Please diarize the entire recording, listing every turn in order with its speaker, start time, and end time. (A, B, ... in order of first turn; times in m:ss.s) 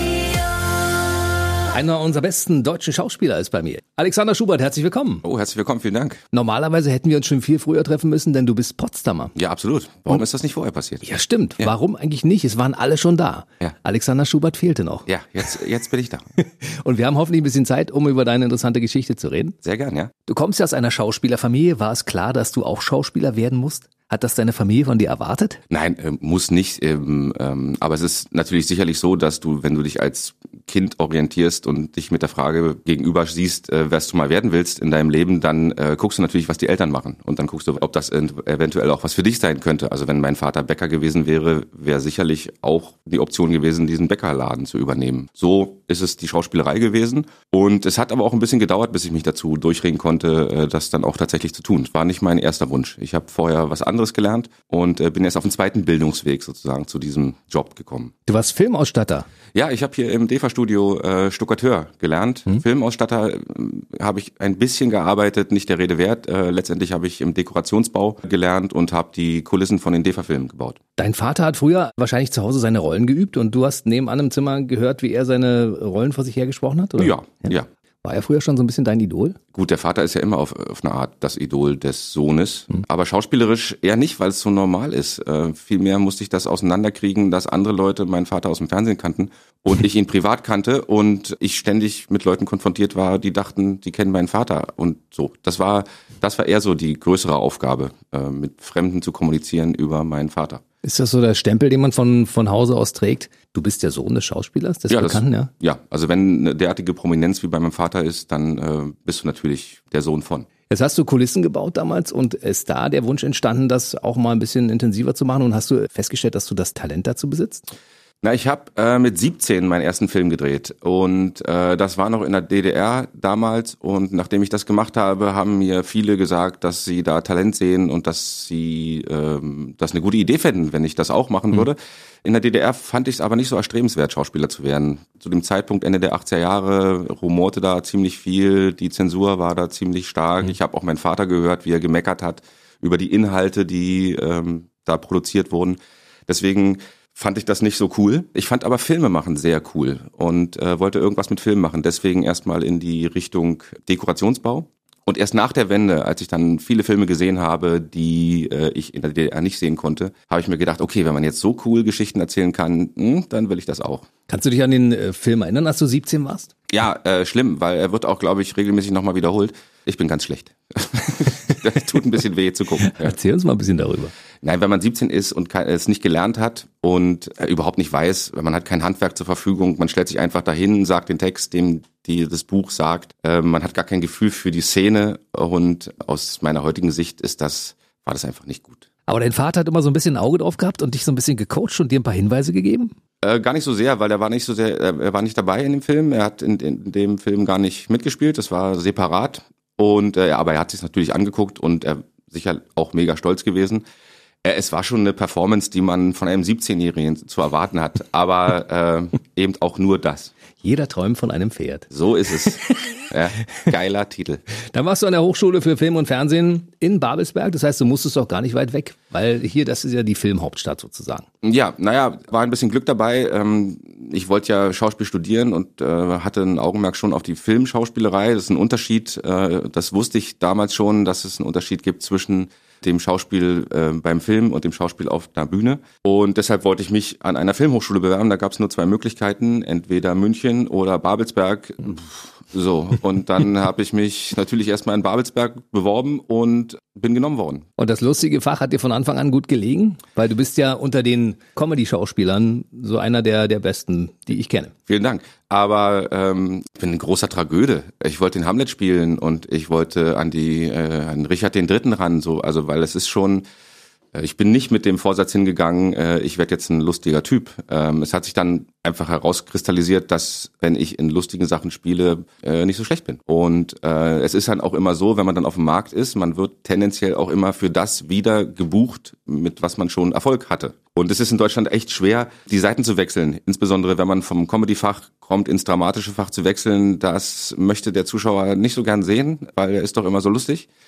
0:01.7-0:05.2 A
0:05.2-0:06.2 B
0:06.3-0:09.3 A
0:09.3-0:11.7 B
0:11.0-0:15.1 A
0:15.1-0:16.3 B
0:16.4-0:19.5 A
0:19.6-0:20.1 B
0:20.3-0:25.6 A
0:25.7-0:58.1 B
0:58.2-0:59.3 A
0:59.5-1:10.8 B
1:11.0-1:17.5 A
1:17.0-1:17.7 B
1:18.0-1:19.4 A
1:19.5-1:40.6 B
1:40.8-1:45.5 A
1:44.9-1:50.5 B
1:50.7-1:57.6 A
1:58.2-2:44.1 B
2:44.3-2:46.5 A
2:46.7-2:53.2 B
2:52.8-2:54.1 A
2:54.4-3:08.8 B
3:09.1-3:12.9 A
3:13.2-3:23.8 B
3:24.4-3:30.3 B
3:30.6-3:31.9 A
3:31.9-3:34.4 B
3:34.7-3:41.2 A
3:41.4-4:07.6 B
4:07.8-4:14.7 A
4:14.9-4:23.4 B
4:24.1-4:50.7 B